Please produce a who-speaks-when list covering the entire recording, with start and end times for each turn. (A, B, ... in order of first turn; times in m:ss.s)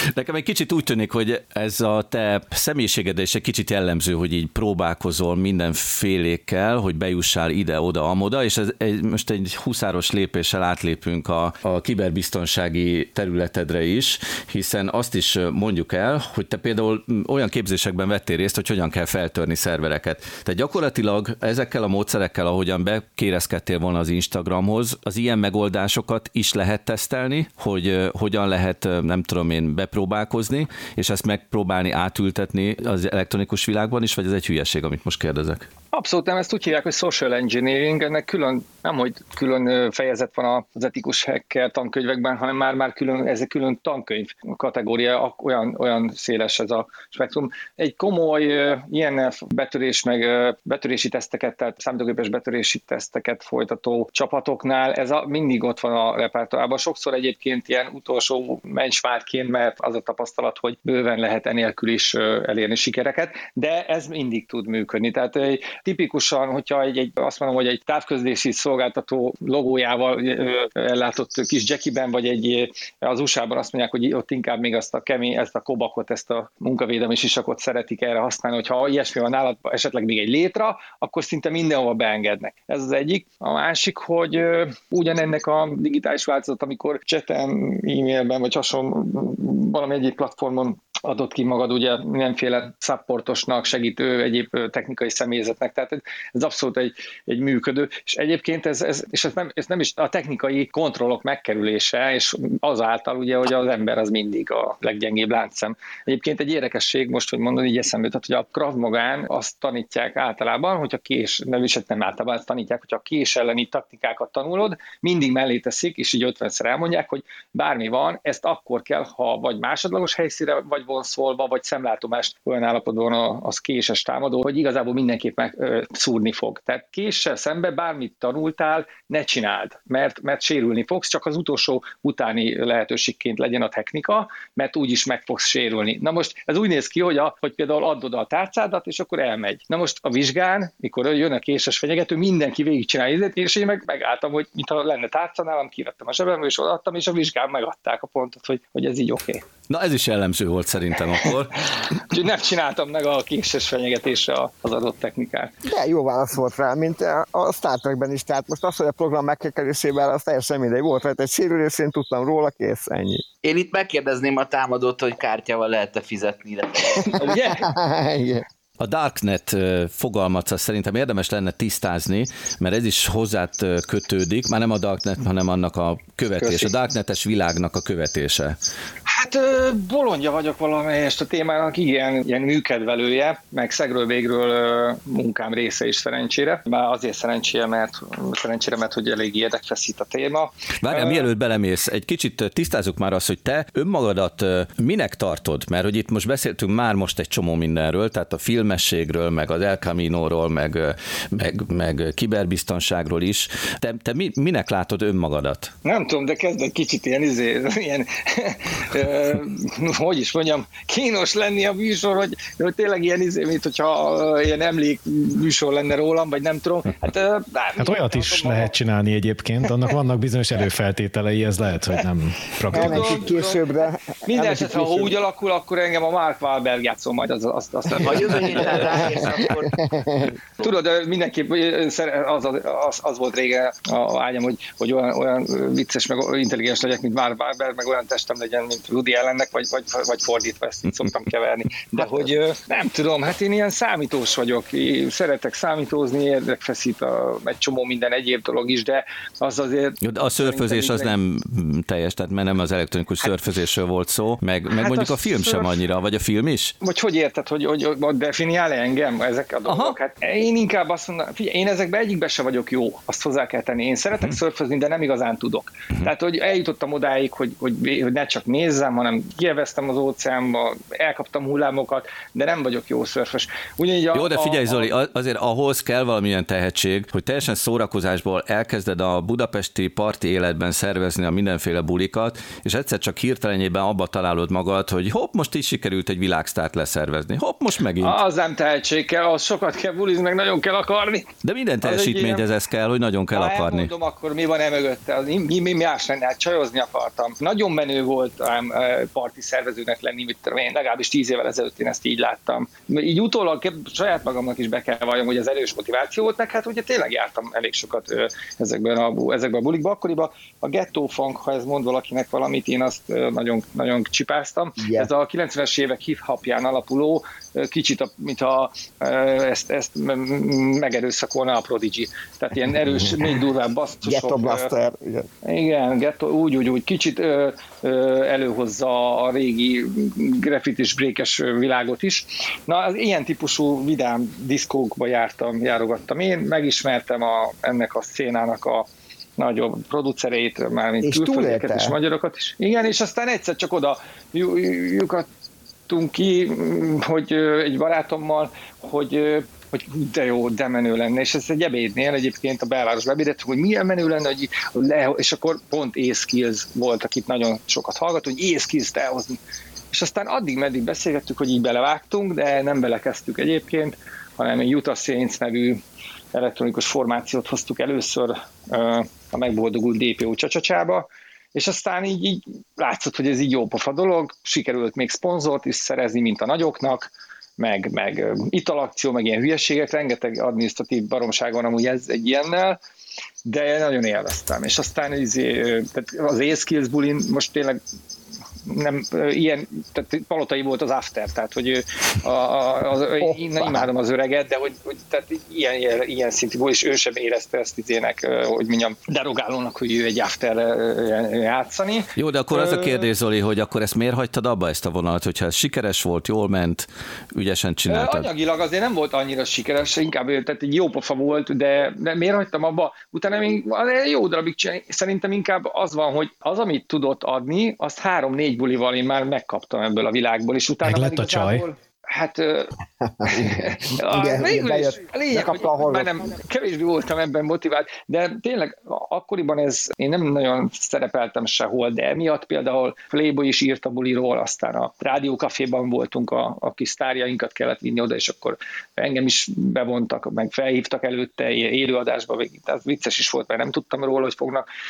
0:00.1-0:35.7 A
0:35.9-2:29.4 B
2:29.7-2:31.6 A
2:32.1-2:35.5 B
2:35.6-2:43.2 C
2:43.4-2:47.3 D
2:47.0-2:47.7 B
2:47.5-2:48.4 C
2:48.8-2:58.6 A
2:56.4-2:56.7 B
2:59.1-3:11.3 B
3:10.8-3:25.7 A
3:25.8-3:38.7 B
3:37.8-3:43.3 E
3:42.6-3:43.6 B
3:42.7-3:45.2 C
3:44.3-3:49.4 B
3:48.0-3:49.8 D
3:48.1-3:50.4 C
3:50.6-4:11.1 B
4:10.0-4:16.7 A
4:13.2-4:13.5 B
4:14.7-4:15.8 B
4:16.8-4:34.9 B
4:19.7-4:20.0 A
4:34.1-4:48.2 A
4:48.0-4:52.5 B
4:51.4-4:53.9 A
4:53.3-5:24.7 B
5:14.8-5:15.1 C
5:22.8-5:23.3 C
5:24.0-5:25.3 C
5:25.4-5:38.9 B
5:39.4-5:45.2 B
5:41.0-5:42.0 C
5:45.9-5:59.4 B
5:59.9-6:05.8 B
6:06.3-6:22.8 B
6:23.4-6:27.8 B
6:28.7-6:43.1 B
6:33.2-6:33.9 C
6:42.2-6:48.3 A
6:47.9-7:02.7 B
7:00.8-7:01.6 E
7:03.0-7:06.1 C
7:03.3-7:24.6 B